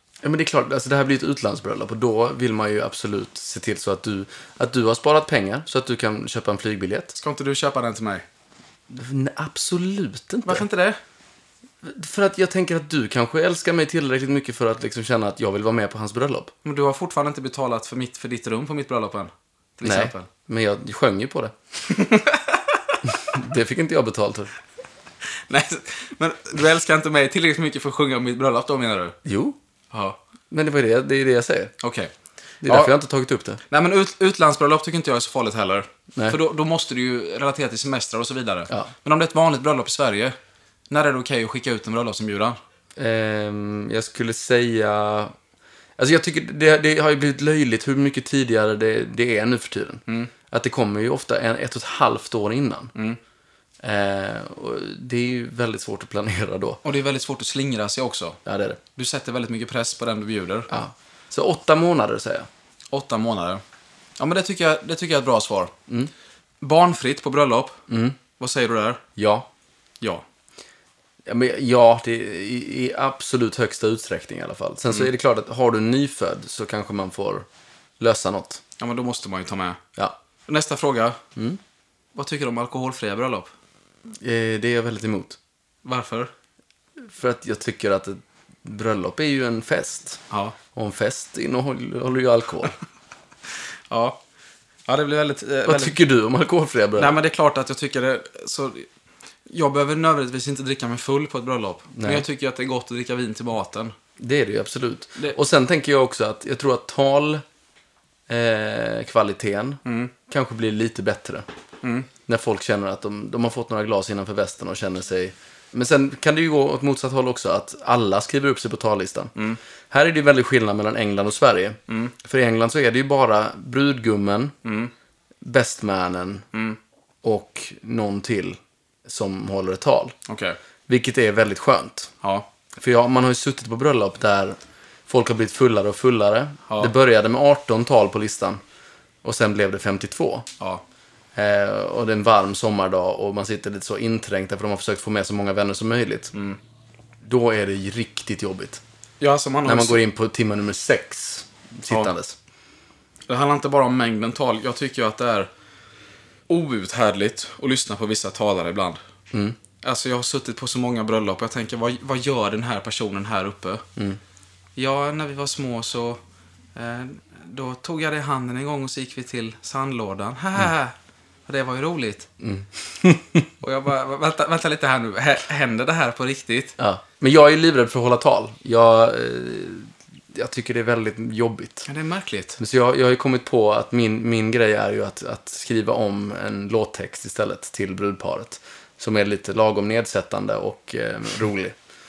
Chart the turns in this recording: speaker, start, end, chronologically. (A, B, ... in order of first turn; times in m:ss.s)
0:00.2-0:07.1 A
0:07.1-0:08.2 B
0:08.9-0:10.6 A
0:10.4-0:11.0 B
0:11.8-0:16.5 A
0:16.6-0:20.3 B
0:19.8-0:21.5 A
0:21.8-0:23.0 B
0:23.1-0:24.5 A
0:25.5-0:29.2 B
0:29.2-0:29.6 A
0:29.9-0:30.2 B
0:30.5-0:31.7 A
0:31.8-0:32.1 B
0:32.6-0:33.6 A
0:32.6-0:32.9 B
0:33.7-0:40.4 B
0:40.9-0:42.6 B
0:43.0-0:45.3 A
0:46.0-0:52.9 A
0:53.8-0:56.8 A
0:56.8-0:58.4 B
0:58.4-0:58.8 A
0:59.0-1:00.7 B
1:00.7-1:02.5 A
1:02.9-1:03.6 B
1:04.2-1:05.7 B
1:06.6-1:07.8 B
1:07.9-1:08.2 A
1:08.4-1:09.0 B
1:09.2-1:09.5 A
1:11.2-1:17.5 A
1:18.0-1:18.6 A
1:18.8-1:19.8 B
1:20.5-1:21.2 B
1:22.1-1:23.5 B
1:24.2-1:25.4 A
1:25.8-1:26.3 B
1:27.0-1:30.2 A
1:30.3-1:30.6 B
1:30.7-1:32.7 A
1:33.9-1:34.2 B
1:34.9-1:36.0 B
1:35.6-1:37.2 A
1:37.0-1:38.9 B
1:39.5-1:43.9 B
1:41.9-1:42.2 A
1:44.2-1:47.4 A
1:48.3-1:51.4 A
1:49.8-1:50.1 B
1:51.8-1:52.1 B
1:52.2-1:59.3 A
1:59.9-2:04.5 A
2:04.6-2:04.9 B
2:05.4-2:06.4 A
2:06.5-2:06.8 B
2:07.2-2:10.2 A
2:10.3-2:10.6 B
2:10.9-2:12.1 A
2:12.2-2:12.5 B
2:12.8-2:14.6 A
2:15.1-2:18.6 A
2:16.7-2:16.9 B
2:19.2-2:20.5 A
2:21.3-2:26.3 A
2:26.3-2:26.6 B
2:27.2-2:28.8 A
2:29.2-2:30.0 B
2:29.6-2:32.4 A
2:33.3-2:35.5 B
2:36.5-2:39.0 B
2:39.3-2:39.6 A
2:39.8-2:43.8 B
2:44.8-2:46.2 B
2:46.8-2:50.9 B
2:51.4-2:52.3 B
2:52.4-2:53.4 A
2:53.6-2:56.8 B
2:56.8-3:01.9 A
3:01.8-3:02.6 B
3:02.6-3:11.8 A